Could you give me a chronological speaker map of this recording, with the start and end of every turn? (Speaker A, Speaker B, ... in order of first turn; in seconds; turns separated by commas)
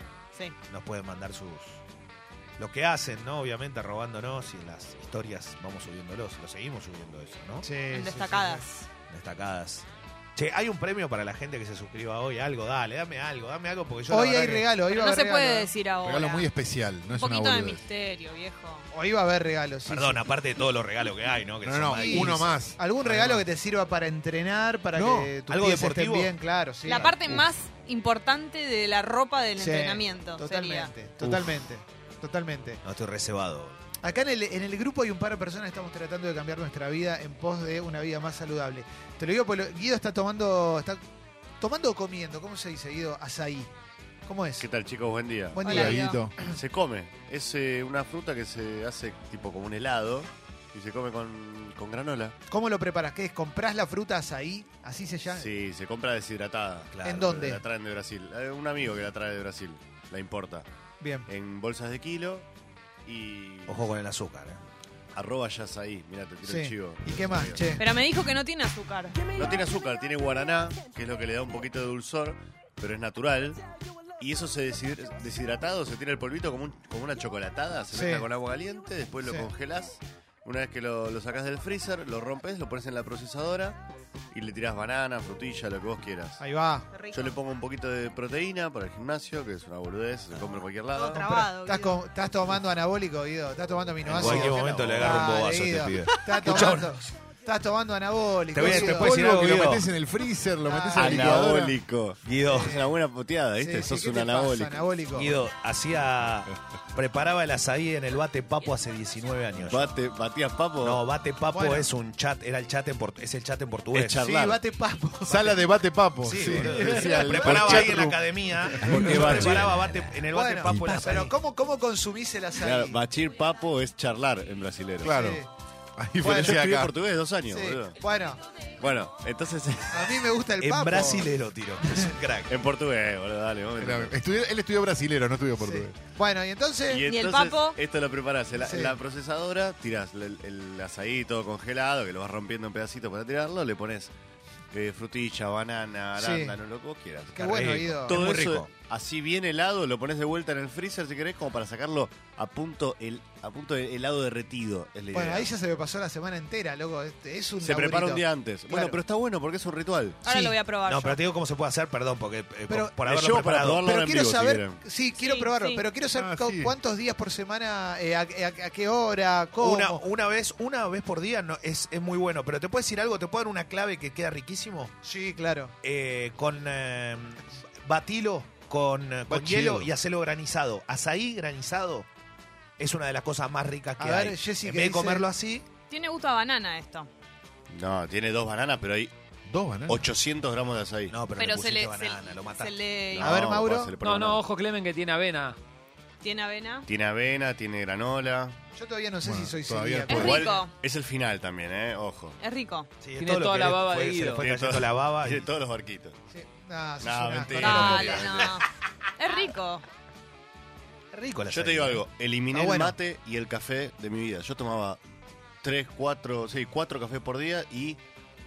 Speaker A: 0.7-1.8, Speaker A: 2.6-7.7, Speaker B: 7.6-8.6, Speaker C: 7.9-8.9, Speaker A: 9.1-14.7, Speaker B: 14.1-15.7, Speaker C: 14.9-16.5, Speaker D: 16.0-17.8, Speaker C: 17.1-18.9, Speaker B: 18.9-20.2, Speaker A: 19.9-23.4, Speaker D: 21.6-22.8, Speaker B: 21.9-27.4, Speaker A: 24.9-26.4, Speaker C: 26.9-30.9, Speaker A: 26.9-27.1, Speaker B: 29.6-32.8, Speaker A: 32.8-33.8, Speaker B: 34.0-41.0, Speaker B: 41.6-43.7, Speaker B: 44.3-44.7, Speaker E: 44.6-45.9, Speaker B: 45.5-46.2, Speaker C: 45.6-46.2, Speaker D: 45.6-46.5, Speaker E: 46.4-52.4, Speaker B: 52.5-55.5, Speaker E: 55.3-60.6, Speaker A: 56.9-57.2, Speaker B: 57.0-57.6, Speaker B: 61.0-61.3, Speaker E: 61.3-62.5, Speaker E: 63.1-63.9, Speaker A: 63.7-64.6, Speaker E: 65.1-67.6, Speaker B: 66.4-67.8, Speaker C: 67.8-69.4, Speaker E: 69.4-73.6, Speaker E: 74.2-83.8, Speaker B: 77.9-78.3, Speaker B: 79.2-79.5, Speaker E: 84.3-86.4, Speaker B: 86.4-86.9, Speaker C: 86.9-87.3, Speaker E: 87.1-91.3, Speaker C: 90.9-92.0, Speaker B: 91.2-99.8, Speaker A: 94.1-97.0, Speaker E: 94.1-95.0, Speaker A: 98.5-99.9, Speaker D: 98.6-101.8, Speaker B: 100.6-101.5, Speaker E: 100.9-104.9, Speaker A: 102.2-102.8, Speaker B: 102.5-102.9, Speaker B: 103.6-105.4, Speaker A: 105.1-109.9, Speaker E: 109.7-111.0, Speaker A: 110.8-114.2, Speaker B: 111.5-111.9, Speaker E: 113.9-114.6, Speaker B: 114.2-115.7, Speaker D: 115.3-119.6, Speaker A: 116.2-121.3, Speaker B: 116.6-117.1, Speaker E: 116.7-118.0, Speaker E: 118.8-120.0, Speaker B: 120.2-123.0, Speaker E: 120.7-121.0, Speaker E: 122.6-125.2, Speaker D: 125.0-125.4, Speaker B: 125.0-125.5, Speaker D: 126.0-126.9, Speaker B: 126.2-126.6, Speaker E: 126.2-128.0, Speaker B: 127.5-128.4, Speaker E: 128.8-130.3, Speaker B: 129.9-131.3, Speaker A: 130.6-132.6, Speaker E: 132.5-134.2, Speaker D: 133.8-135.9, Speaker B: 135.6-137.1, Speaker E: 136.9-144.1, Speaker C: 137.1-137.8, Speaker B: 138.5-139.0, Speaker E: 144.7-155.5, Speaker B: 146.2-146.6, Speaker B: 147.3-148.4, Speaker A: 147.4-148.7, Speaker B: 155.1-159.0, Speaker E: 157.6-160.2, Speaker C: 160.2-161.2, Speaker B: 160.3-160.6, Speaker A: 160.9-163.8, Speaker B: 162.7-162.9, Speaker E: 163.1-164.8, Speaker B: 163.8-170.0, Speaker C: 165.2-165.8, Speaker D: 166.1-166.8, Speaker A: 169.6-174.9, Speaker B: 175.0-175.7, Speaker A: 175.8-182.1, Speaker D: 179.3-179.9, Speaker A: 182.8-185.7, Speaker B: 184.0-185.3, Speaker C: 185.9-187.1, Speaker E: 187.7-189.1, Speaker D: 189.5-190.1, Speaker E: 189.9-191.1, Speaker A: 191.1-192.8, Speaker C: 191.4-193.4, Speaker E: 193.1-194.4, Speaker B: 193.2-193.9, Speaker F: 194.0-195.6, Speaker C: 196.2-196.9, Speaker E: 196.9-198.6, Speaker B: 198.8-200.4, Speaker D: 199.2-200.4, Speaker C: 200.1-200.7, Speaker E: 200.1-202.4, Speaker C: 202.4-202.9, Speaker A: 203.0-205.5, Speaker F: 203.2-204.5, Speaker E: 204.3-206.2, Speaker B: 206.3-208.4, Speaker E: 207.0-208.5, Speaker C: 207.6-209.8, Speaker A: 211.1-212.0, Speaker E: 211.5-215.0, Speaker B: 212.5-213.0, Speaker E: 215.6-218.0